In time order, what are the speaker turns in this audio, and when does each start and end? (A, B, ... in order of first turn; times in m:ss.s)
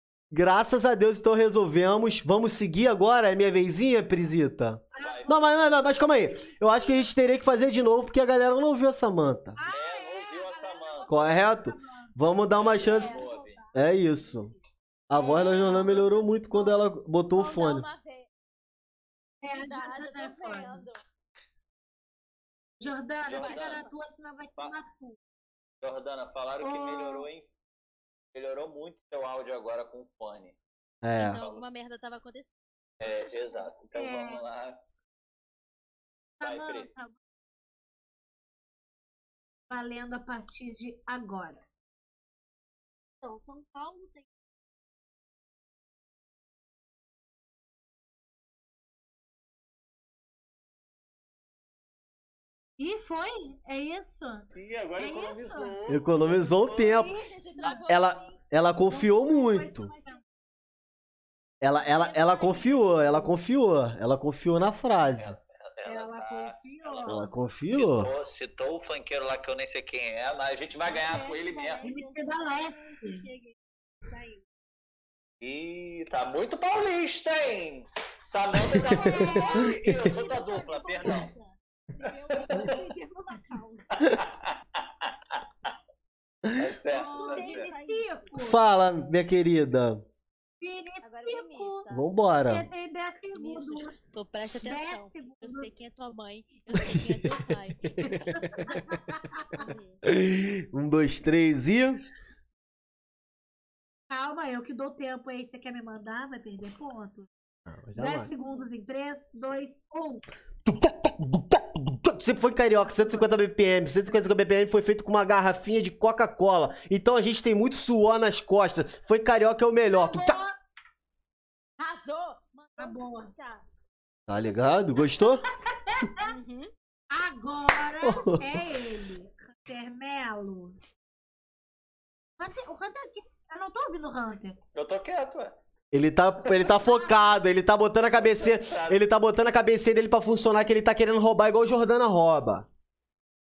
0:00.3-0:09.6 A
0:04.9-0:06.9 B
0:05.0-0:05.6 C
0:09.6-0:12.2 B
0:09.7-0:11.2 C
0:11.1-0:13.2 A
0:12.5-0:13.6 C
0:12.6-0:14.6 D
0:13.7-0:14.5 A
0:15.1-0:17.8 A
0:15.2-0:18.3 E
0:19.4-0:20.8 B
0:19.4-0:21.0 E
0:22.8-0:25.2 B
0:23.2-0:23.8 C
0:23.4-0:23.9 E
0:25.8-0:27.5 C
0:26.6-0:27.3 B
0:28.3-0:30.6 C
0:31.0-0:31.4 A
0:31.2-0:33.7 E
0:31.4-0:31.6 C
0:33.0-0:34.8 C
0:33.9-0:34.4 B
0:36.4-0:37.2 B
0:36.4-0:36.9 C
0:39.7-0:41.6 B
0:43.2-0:44.3 D
0:52.8-0:55.8 B
0:54.6-0:57.0 C
0:55.9-0:57.1 A
0:56.6-0:57.9 B
0:57.2-0:58.4 E
0:57.9-0:59.9 A
0:58.9-1:00.2 B
1:01.6-1:05.4 A
1:01.9-1:03.2 E
1:05.0-1:11.8 C
1:05.8-1:07.4 B
1:07.1-1:08.1 A
1:10.8-1:14.4 D
1:11.8-1:13.3 B
1:15.4-1:21.3 C
1:18.6-1:19.8 B
1:19.4-1:24.1 D
1:22.5-1:22.8 C
1:23.9-1:24.8 C
1:26.6-1:27.7 C
1:26.9-1:27.7 E
1:26.9-1:28.9 B
1:27.0-1:28.5 D
1:28.4-1:30.0 A
1:30.6-1:31.9 B
1:31.0-1:32.1 E
1:31.9-1:32.7 A
1:32.4-1:34.0 B
1:33.3-1:38.9 E
1:34.6-1:35.7 B
1:38.2-1:39.7 B
1:39.6-1:40.0 E
1:40.1-1:42.0 A
1:44.1-1:47.3 B
1:47.7-1:48.3 A
1:48.0-1:50.2 B
1:50.6-2:00.4 A
1:59.9-2:00.6 B
2:01.8-2:03.6 E
2:02.8-2:03.3 B
2:04.3-2:05.4 A
2:04.4-2:04.8 E
2:05.4-2:06.3 B
2:06.2-2:06.7 E
2:07.1-2:10.8 B
2:08.0-2:09.0 A
2:12.4-2:14.6 B
2:14.7-2:15.6 C
2:15.9-2:22.7 A
2:16.5-2:17.4 B
2:18.3-2:19.0 C